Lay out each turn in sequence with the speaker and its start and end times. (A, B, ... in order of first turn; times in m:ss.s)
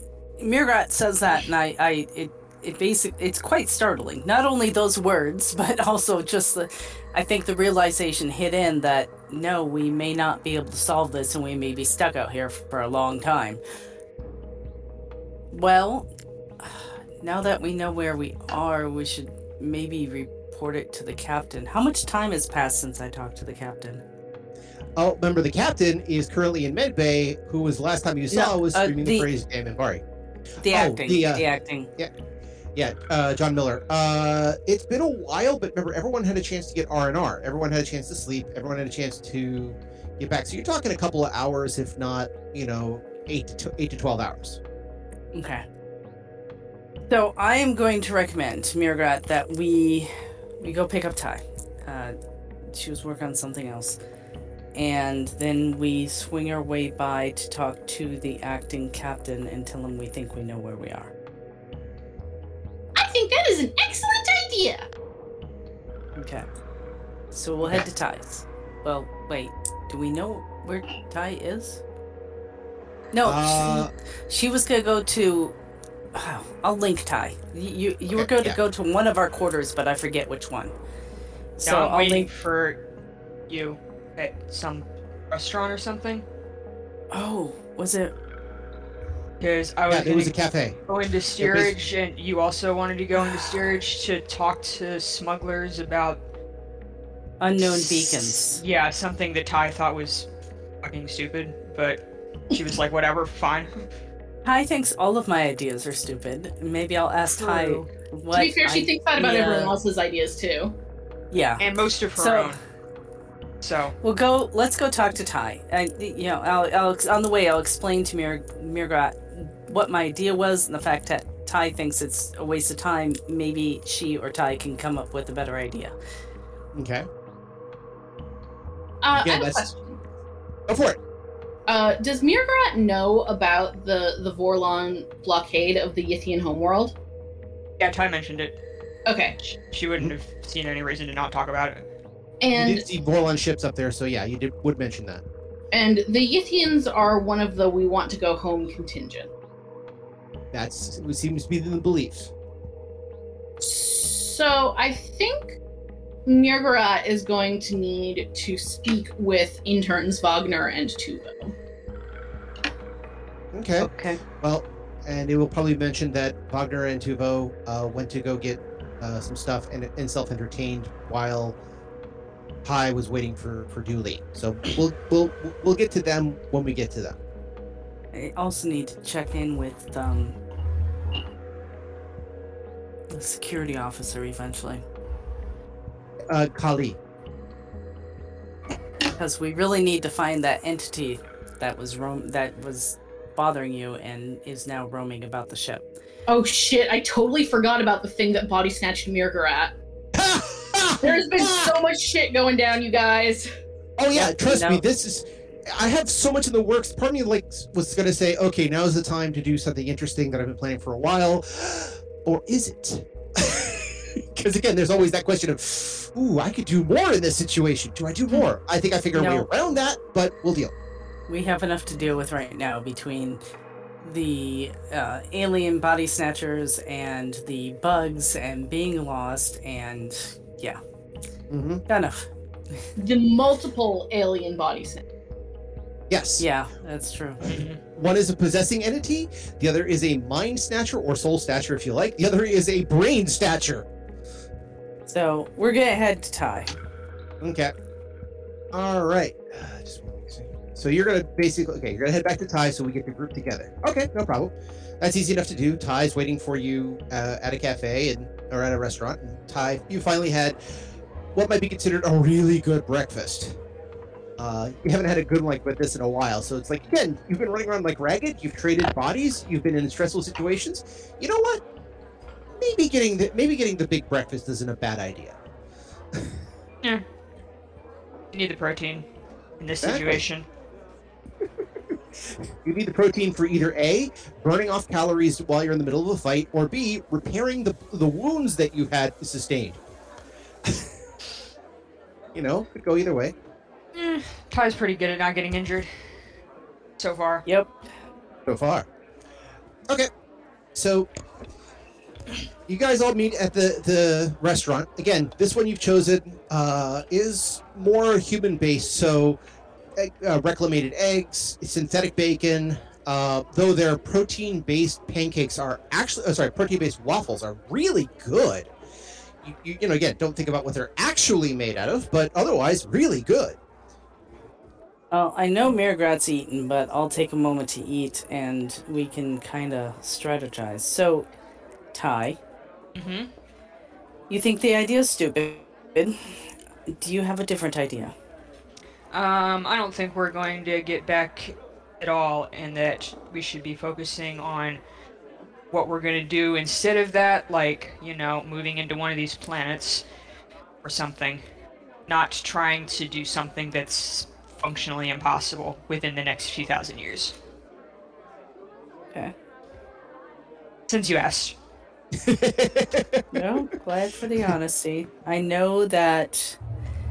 0:00.4-0:13.6 A
0:15.5-0:16.1 A
0:16.6-0:24.0 A
0:25.0-0:30.0 B
0:28.3-0:29.3 A
0:30.6-0:31.9 A
0:30.7-0:31.4 B
0:32.8-0:44.6 B
0:45.3-0:45.6 A
0:47.1-0:54.0 A
0:54.7-1:01.1 A
1:03.0-1:04.9 C
1:06.2-1:06.5 A
1:07.3-1:11.8 A
1:13.1-1:15.6 A
1:13.2-1:13.9 B
1:16.1-1:20.7 A
1:18.1-1:18.6 B
1:21.6-1:22.3 A
1:21.6-1:22.8 D
1:23.5-1:26.2 D
1:27.1-1:28.1 A
1:29.4-1:30.3 D
1:29.9-1:30.8 B
1:30.9-1:36.2 D
1:31.4-1:31.8 B
1:37.4-1:38.6 A
1:38.3-1:40.3 D
1:40.8-1:43.8 D
1:44.4-1:49.8 A
1:47.4-1:47.9 D
1:48.3-1:50.8 C
1:51.3-1:51.6 A
1:51.6-1:52.6 D
1:52.2-1:52.6 A
1:53.6-1:54.0 D
1:54.0-2:05.9 A
2:06.7-2:07.1 B
2:09.0-2:10.0 C
2:09.1-2:09.7 B
2:10.7-2:11.0 B
2:11.7-2:17.0 C
2:17.8-2:18.6 D
2:19.1-2:19.6 C
2:19.7-2:21.9 D
2:22.4-2:22.8 C
2:22.5-2:25.2 B
2:25.7-2:29.3 C
2:30.5-2:32.3 B
2:33.6-2:35.6 C
2:36.2-2:41.5 C
2:43.5-2:51.6 B
2:43.8-2:44.2 A
2:52.6-2:57.2 B
2:58.1-3:00.4 A
3:03.1-3:04.8 A
3:06.3-3:07.0 B
3:09.2-3:15.9 A
3:16.3-3:19.8 C
3:20.1-3:21.7 B
3:21.0-3:23.5 C
3:24.0-3:40.7 B
3:24.1-3:24.8 A
3:39.1-3:39.5 A
3:41.3-3:43.4 A
3:44.0-3:50.8 A
3:51.5-3:51.8 B
3:51.9-3:52.9 A
3:53.0-3:55.1 C
3:56.1-3:56.5 B
3:56.4-3:57.4 A
3:57.4-3:57.8 D
3:57.4-4:03.9 B
4:05.1-4:06.7 A
4:07.4-4:07.7 B
4:08.7-4:20.6 B
4:21.3-4:23.6 B
4:24.4-4:31.6 B
4:32.5-4:35.4 B
4:38.3-4:39.0 D
4:39.6-4:40.5 D
4:39.8-4:40.2 B
4:42.2-4:49.8 B
4:52.3-4:53.3 B
4:53.9-4:55.9 D
4:57.0-4:57.4 D
4:57.5-4:57.7 A
4:58.5-4:58.9 B
5:00.7-5:01.1 B
5:02.7-5:09.4 B
5:10.0-5:18.7 B
5:19.4-5:23.6 B
5:25.1-5:31.3 A
5:31.9-5:32.4 A
5:33.0-5:33.3 D
5:34.3-5:38.1 A
5:39.1-5:44.8 D
5:45.7-5:50.0 D
5:50.8-5:51.4 D
5:52.1-5:57.4 D
6:00.9-6:01.5 D
6:02.1-6:03.2 B
6:03.3-6:06.6 A